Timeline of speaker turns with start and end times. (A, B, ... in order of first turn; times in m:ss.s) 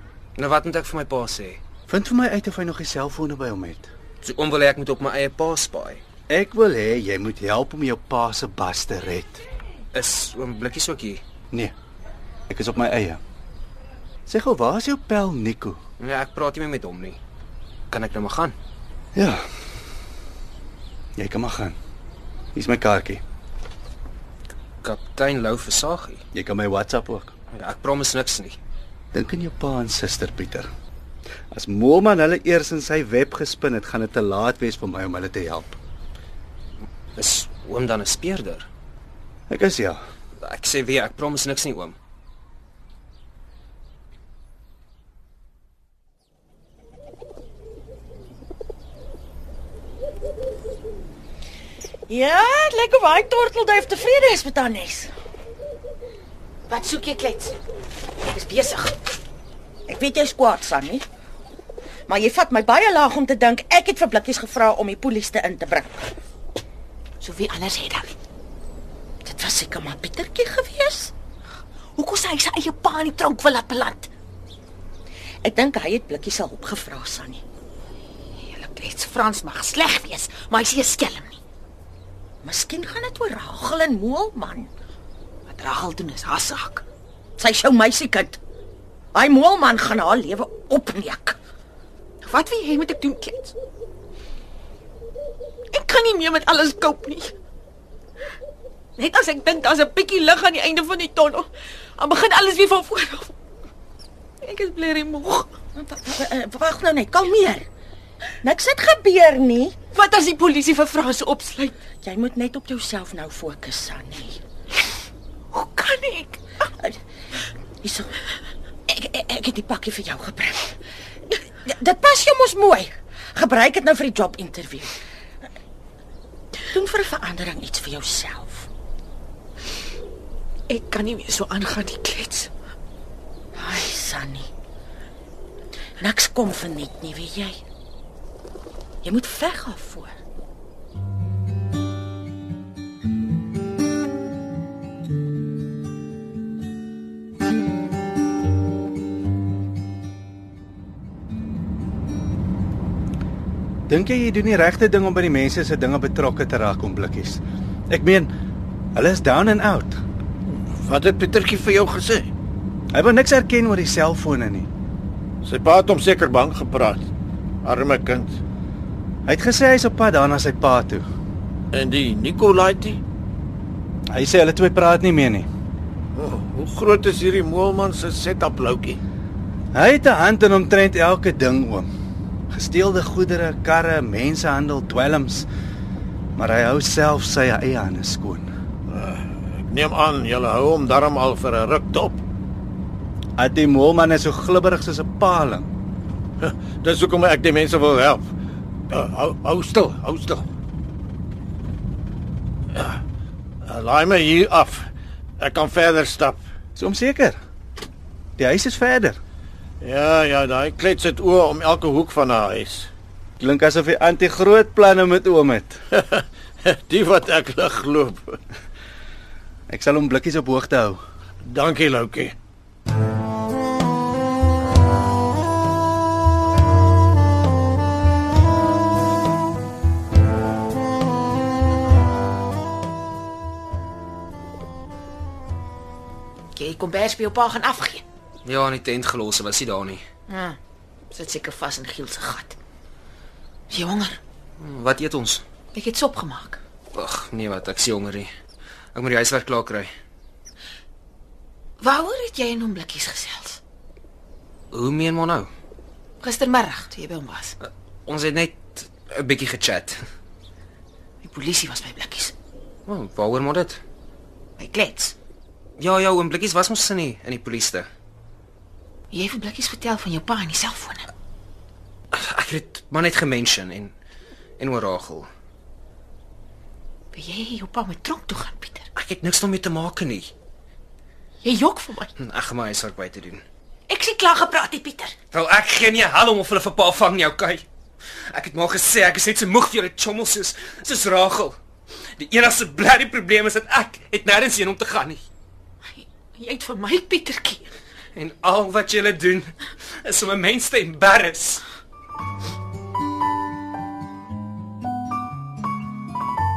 0:00.4-0:01.6 A
0:01.9-0:03.9 B
0:04.2-0:06.0 A
0:06.3-0:09.4 B
0:09.9-0:11.2 A
0:12.5-0:13.2 B
0:14.3-0:15.8 B
0:16.0-0:17.2 A
0:17.9-0:18.6 A
0:19.2-0:19.4 B
0:21.2-0:21.8 B
0:22.6-0:23.2 B
0:24.8-0:26.2 A
0:26.3-0:27.3 B
0:27.5-0:28.6 A
0:29.1-0:30.7 B
0:31.5-0:35.8 B
0:37.2-0:38.7 A
0:39.5-0:40.0 B
0:40.4-0:42.0 A
0:52.1-0:55.1 C
0:56.7-0:57.6 D
0:58.3-0:59.0 D
0:59.9-1:01.0 C
1:02.1-1:06.0 C
1:07.2-1:08.1 D
1:09.2-1:11.1 C
1:12.0-1:14.1 D
1:15.4-1:17.4 C
1:18.4-1:21.4 D
1:22.4-1:24.7 C
1:25.5-1:26.8 D
1:27.4-1:28.4 C
1:29.2-1:31.4 C
1:32.2-1:33.6 D
1:35.7-1:37.4 D
1:39.0-1:43.3 D
1:44.4-1:45.5 D
1:45.8-1:47.7 C
1:48.4-1:49.8 C
1:49.9-1:51.7 D
1:52.0-1:54.4 C
1:55.5-1:56.4 D
1:57.8-1:58.1 C
1:58.9-2:00.8 C
2:01.6-2:05.0 C
2:06.7-2:08.7 C
2:10.7-2:12.5 D
2:13.6-2:14.5 C
2:16.0-2:17.6 C
2:19.0-2:19.8 C
2:19.6-2:20.1 D
2:33.9-2:38.3 B
2:39.0-2:40.0 B
2:40.5-2:42.3 E
2:42.9-2:44.7 B
2:45.4-2:47.0 E
2:47.6-2:48.4 E
2:49.3-2:51.0 B
2:51.7-2:53.0 E
2:54.1-2:55.5 B
2:56.2-2:59.0 E
2:59.7-3:01.9 B
3:02.5-3:05.5 B
3:06.4-3:08.5 B
3:08.9-3:12.2 E
3:13.4-3:15.7 B
3:16.4-3:18.2 E
3:18.9-3:20.5 E
3:22.7-3:23.0 E
3:23.6-3:24.9 E
3:25.4-3:26.4 E
3:26.8-3:27.4 B
3:28.4-3:29.2 B
3:29.8-3:32.9 E
3:33.4-3:35.8 B
3:35.9-3:38.4 E
3:39.7-3:41.0 B
3:41.4-3:42.3 E
3:56.5-3:58.0 D
3:58.4-4:00.0 A
4:00.3-4:00.6 D
4:01.1-4:02.6 D
4:03.7-4:04.2 D
4:04.6-4:05.4 A
4:05.7-4:06.6 D
4:06.9-4:08.3 A
4:08.9-4:09.9 A
4:11.8-4:13.6 D
4:14.7-4:15.5 A
4:16.2-4:17.6 D
4:17.6-4:20.0 A
4:21.2-4:22.3 D
4:22.9-4:23.8 A
4:24.6-4:25.2 D
4:25.8-4:27.9 A
4:29.1-4:31.1 D
4:32.1-4:33.9 A
4:34.6-4:35.3 A
4:37.1-4:38.9 D
4:39.0-4:40.3 A
4:41.4-4:42.1 D
4:42.2-4:43.4 A
4:43.9-4:45.2 D
4:45.3-4:47.6 A
4:48.3-4:51.6 A
4:52.2-4:55.2 A
4:55.8-4:57.7 D
4:58.1-4:59.5 A
5:00.0-5:01.6 A